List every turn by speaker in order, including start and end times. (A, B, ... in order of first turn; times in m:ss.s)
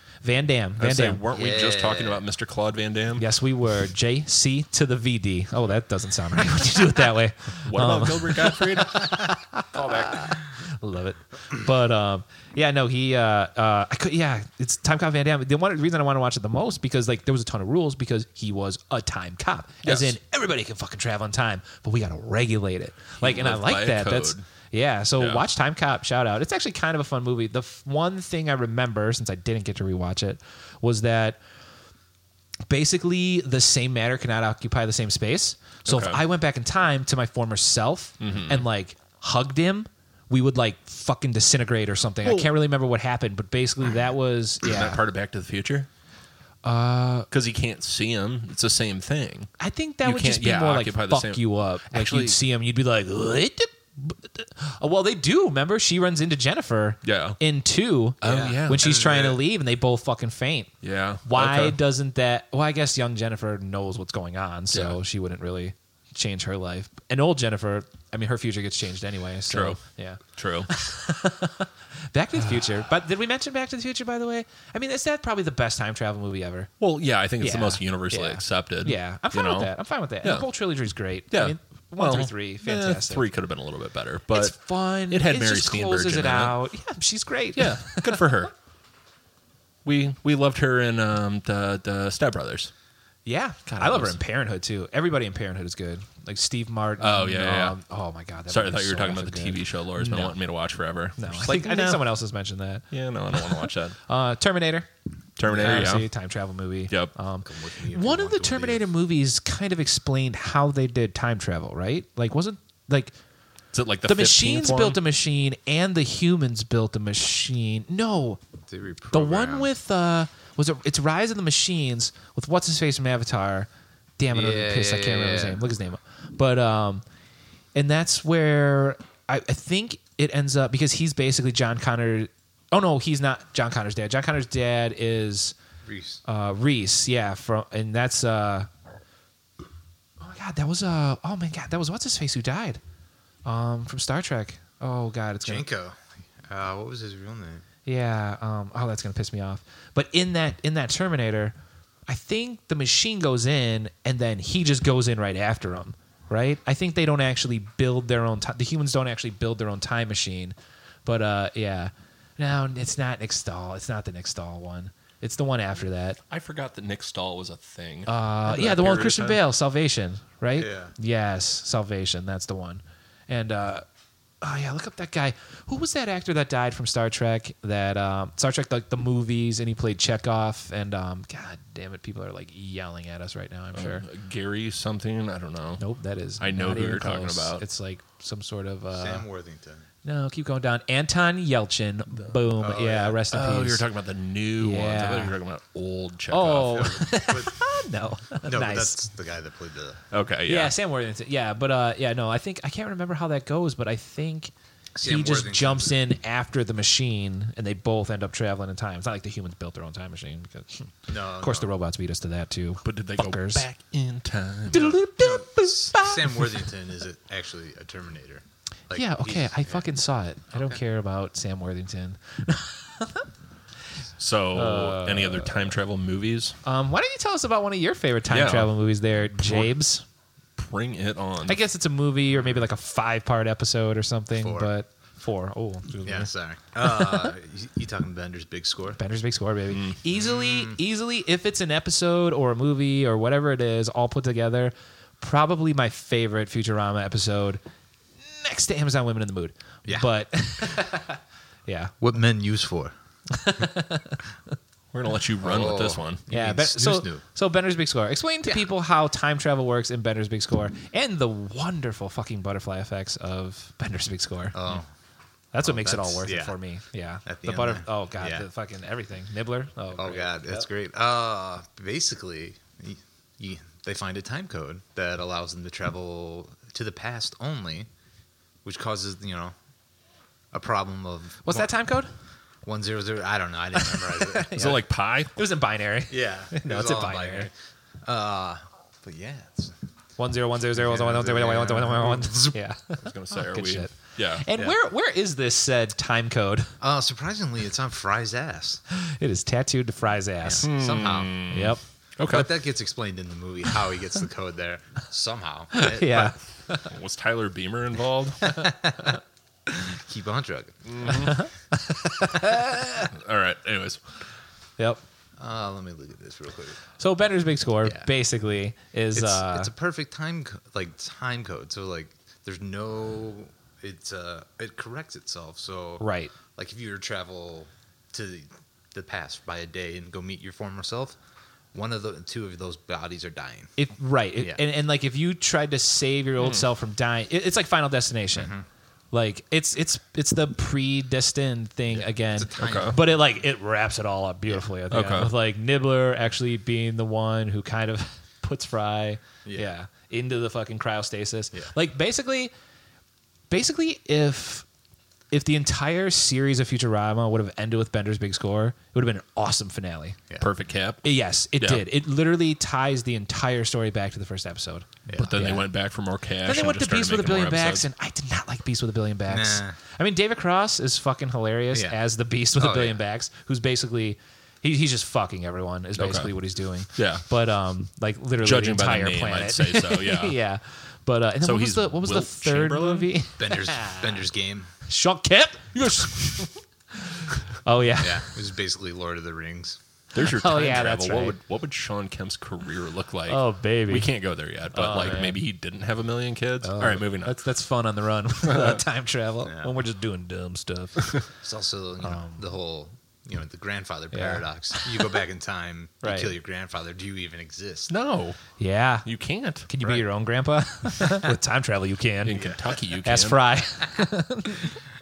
0:00.2-0:01.2 A
0:00.8-0:03.2 B
0:01.3-0:02.2 C
0:03.2-0:31.4 A
0:07.6-0:10.3 B
0:19.8-0:20.2 B
0:23.2-0:24.4 B
0:25.2-0:25.5 B
0:32.7-0:45.0 A
0:35.8-0:36.2 B
0:38.2-0:38.6 B
0:42.2-0:42.5 B
0:44.6-0:45.9 B
0:46.6-0:47.3 A
0:47.3-0:52.4 B
0:49.6-1:00.7 A
0:57.0-0:57.4 B
0:58.2-0:58.9 B
0:58.2-0:59.4 C
1:00.8-1:01.8 B
1:01.2-1:16.7 A
1:04.7-1:05.0 B
1:09.5-1:09.8 B
1:10.3-1:10.7 B
1:12.3-1:12.9 B
1:16.8-1:20.4 B
1:17.4-1:23.2 A
1:21.3-1:24.6 B
1:24.3-1:28.3 A
1:25.1-1:26.5 B
1:27.5-1:28.5 B
1:29.8-1:32.7 B
1:33.2-1:40.4 A
1:33.6-1:34.2 B
1:37.0-1:37.8 B
1:38.5-1:42.1 B
1:41.2-1:44.9 A
1:42.9-1:44.0 B
1:45.4-1:46.1 B
1:45.4-1:53.1 A
1:47.4-1:48.8 C
1:53.7-1:55.0 B
1:54.0-1:58.4 A
1:58.7-1:59.7 C
1:59.1-2:03.7 A
2:04.2-2:07.0 A
2:04.3-2:05.6 C
2:07.7-2:15.6 A
2:15.8-2:16.2 C
2:16.2-2:18.7 A
2:20.2-2:22.8 A
2:23.4-2:25.6 A
2:25.4-2:27.6 C
2:27.8-2:31.5 A
2:32.1-2:46.2 A
2:46.3-2:49.4 B
2:48.0-2:53.8 A
2:50.6-2:50.9 C
2:54.4-3:04.0 A
3:03.7-3:05.8 B
3:05.8-3:09.2 A
3:06.4-3:07.6 B
3:08.9-3:09.8 C
3:10.0-3:13.8 A
3:12.6-3:13.2 C
3:13.3-3:16.9 B
3:14.6-3:15.4 A
3:16.3-3:19.0 A
3:16.7-3:17.7 C
3:18.4-3:20.0 C
3:20.1-3:20.7 B
3:20.4-3:33.6 A
3:25.0-3:26.0 C
3:31.1-3:31.7 C
3:32.8-3:35.0 B
3:34.7-3:36.6 A
3:35.2-3:39.8 C
3:38.9-3:43.3 A
3:40.5-3:40.8 C
3:44.2-3:46.6 B
3:44.5-3:45.7 A
3:46.6-3:50.0 A
3:48.3-3:48.7 B
3:49.4-3:49.7 B
3:50.6-3:51.6 B
3:51.4-3:56.3 A
3:54.4-3:54.7 C
3:56.0-3:59.0 C
3:56.8-3:57.3 A
3:59.0-4:07.6 A
4:00.1-4:00.8 C
4:08.2-4:11.9 A
4:12.0-4:12.9 C
4:13.3-4:14.2 A
4:14.9-4:16.2 B
4:15.4-4:17.2 C
4:16.3-4:24.6 A
4:24.5-4:24.9 C
4:25.5-4:30.6 A
4:25.6-4:26.5 C
4:27.2-4:28.4 C
4:30.0-4:37.9 C
4:38.6-4:39.5 C
4:40.5-4:41.7 C
4:41.4-4:42.1 A
4:42.6-4:44.5 C
4:43.7-4:47.5 A
4:44.5-4:45.4 B
4:46.1-4:47.5 C
4:48.0-4:49.7 C
4:50.2-4:56.7 A
4:50.8-4:52.6 C
4:53.0-4:54.5 B
4:56.8-4:58.8 C
4:58.9-5:00.7 A
5:00.4-5:01.4 C
5:00.6-5:02.5 B
5:01.5-5:01.8 A
5:02.2-5:06.3 C
5:05.7-5:06.9 A
5:06.8-5:08.6 B
5:08.4-5:11.1 C
5:10.8-5:11.5 B
5:11.0-5:13.1 A
5:13.1-5:14.0 B
5:15.4-5:16.8 C
5:17.0-5:19.7 A
5:19.1-5:31.2 C
5:26.0-5:26.3 A
5:31.7-5:33.8 C
5:33.8-5:38.5 A
5:36.4-5:36.6 B
5:38.3-5:38.6 C
5:39.1-5:52.5 A
5:41.9-5:43.2 C
5:42.6-5:43.0 B
5:44.9-5:45.3 B
5:49.4-5:49.7 C
5:53.5-5:54.6 A
5:55.3-6:00.2 A
6:00.4-6:01.0 B
6:01.0-6:05.6 A
6:01.6-6:01.8 B
6:05.1-6:05.5 C
6:05.2-6:07.8 B
6:06.4-6:24.2 A
6:09.3-6:09.8 C
6:11.7-6:12.0 C
6:12.6-6:13.0 C
6:16.0-6:16.3 B
6:16.9-6:17.2 B
6:18.4-6:20.4 B
6:21.4-6:23.1 B
6:23.4-6:24.7 C
6:24.8-6:28.3 A
6:28.0-6:29.8 C
6:30.1-6:37.4 B
6:30.2-6:31.4 A
6:33.3-6:34.1 A
6:34.7-6:35.4 A
6:36.6-6:41.1 A
6:38.4-6:38.8 B
6:39.4-6:39.7 C
6:41.4-6:47.9 C
6:42.0-6:42.4 A
6:44.1-6:45.2 A
6:46.0-6:46.3 A
6:47.9-6:48.4 B
6:48.6-6:49.1 A
6:49.0-6:49.7 B
6:49.7-6:52.5 A
6:52.2-6:53.4 B
6:52.4-6:52.8 C
6:53.0-6:54.8 A